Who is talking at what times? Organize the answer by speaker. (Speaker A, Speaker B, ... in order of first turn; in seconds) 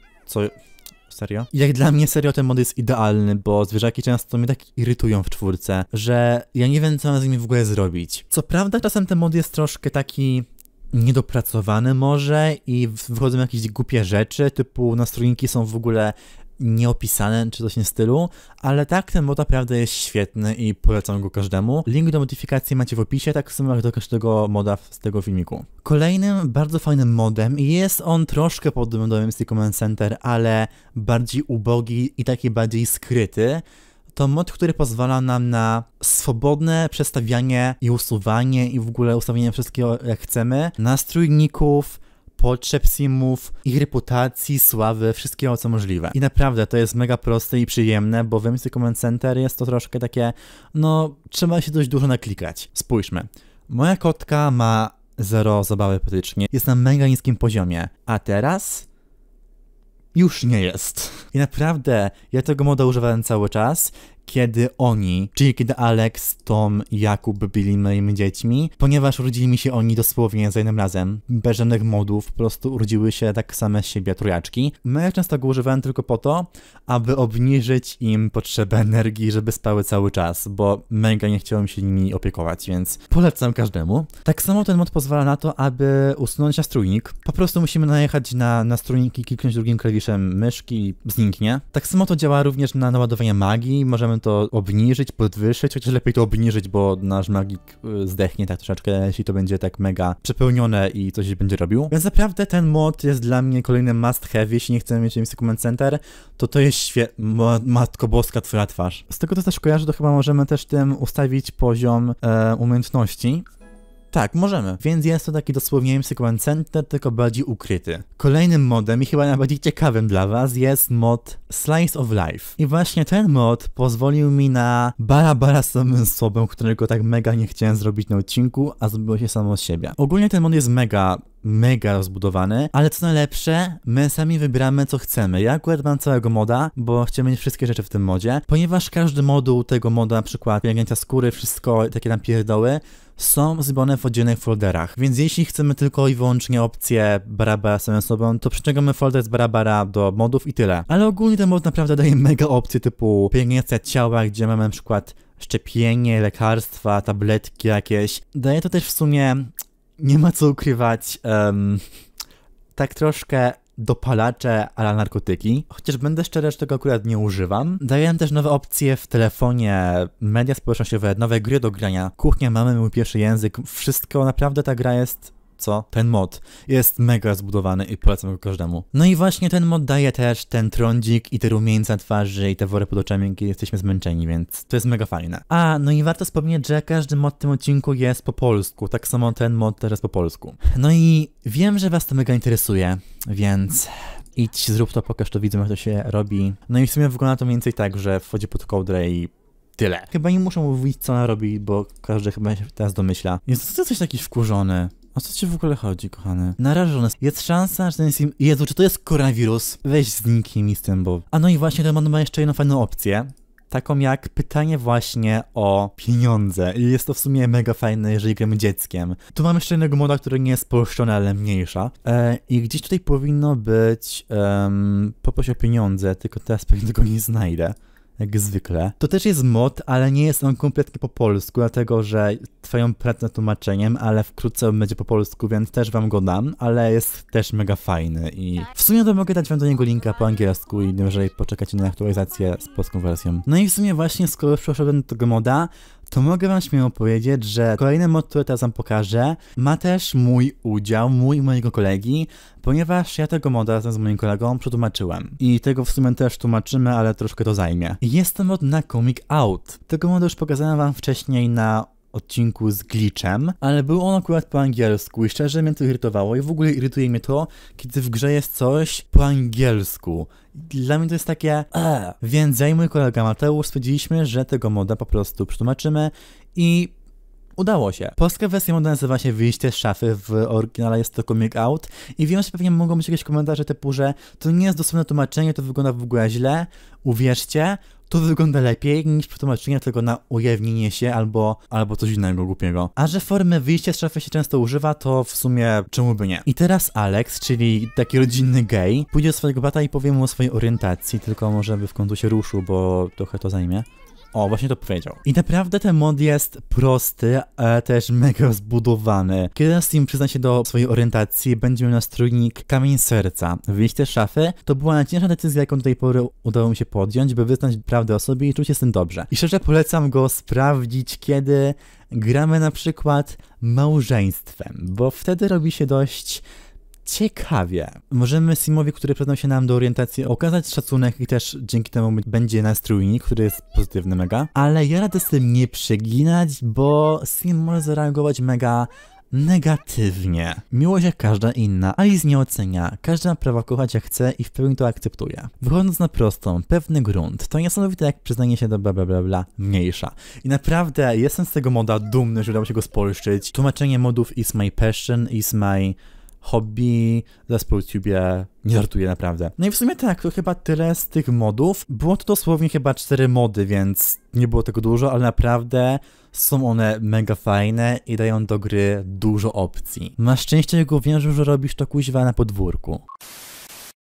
Speaker A: 0.3-0.6, 1.1-58.9, 60.1-113.5, 114.1-161.9, 162.8-276.9, 277.6-326.4, 327.0-373.0